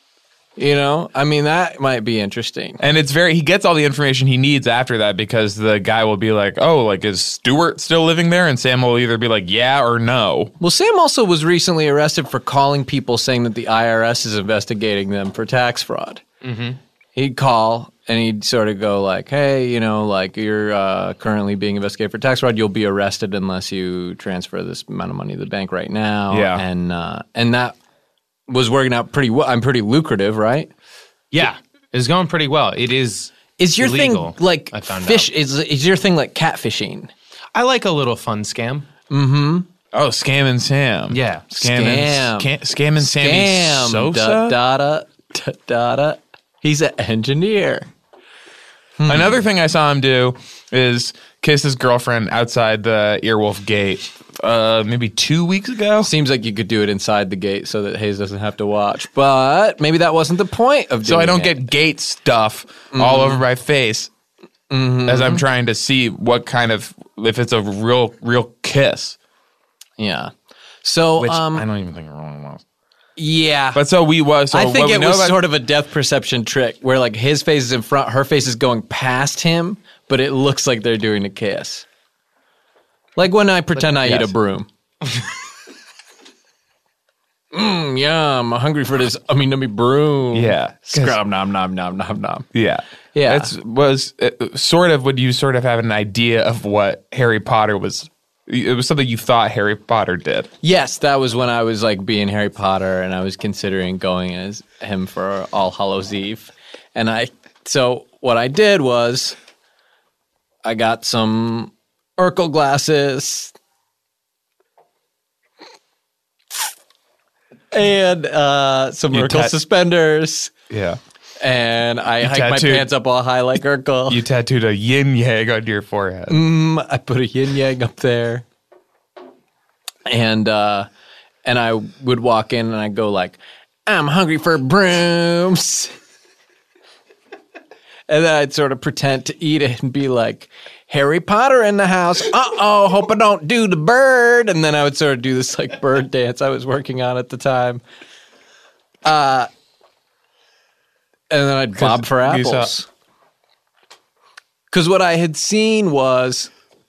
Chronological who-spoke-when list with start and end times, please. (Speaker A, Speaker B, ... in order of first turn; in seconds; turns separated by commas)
Speaker A: 0.6-2.8, Speaker B: 2.8-10.5, Speaker A: 10.6-16.2, Speaker C: 16.4-16.8, Speaker A: 17.1-27.8, Speaker B: 26.3-26.6, Speaker A: 28.5-30.7, Speaker C: 31.3-35.3, Speaker A: 33.6-37.1, Speaker C: 37.5-38.9, Speaker A: 39.1-39.7, Speaker B: 39.9-44.6, Speaker C: 41.1-41.4, Speaker A: 41.5-47.9, Speaker A: 49.0-49.4, Speaker B: 49.0-56.1, Speaker A: 56.0-61.6, Speaker B: 61.0-64.1, Speaker A: 62.9-63.4, Speaker A: 64.7-65.4, Speaker B: 65.0-69.2, Speaker A: 70.0-70.3, Speaker A: 70.8-71.7, Speaker B: 71.2-72.6, Speaker A: 73.2-73.8, Speaker B: 73.7-75.4, Speaker A: 74.5-81.8, Speaker A: 83.2-84.7, Speaker B: 84.0-84.3, Speaker A: 87.5-92.5, Speaker B: 90.3-91.2, Speaker B: 92.5-100.5, Speaker A: 93.1-93.5, Speaker A: 100.6-109.3, Speaker A: 110.6-113.5, Speaker A: 117.7-120.5, Speaker B: 119.1-119.5, Speaker B: 120.7-121.0, Speaker A: 121.4-124.2, Speaker B: 122.2-122.9, Speaker B: 124.1-126.4, Speaker A: 126.3-128.4, Speaker A: 130.1-130.9, Speaker A: 131.4-135.9, Speaker A: 138.1-147.8, Speaker A: 149.0-149.5, Speaker A: 151.3-152.9, Speaker B: 151.8-152.7, Speaker A: 154.7-156.5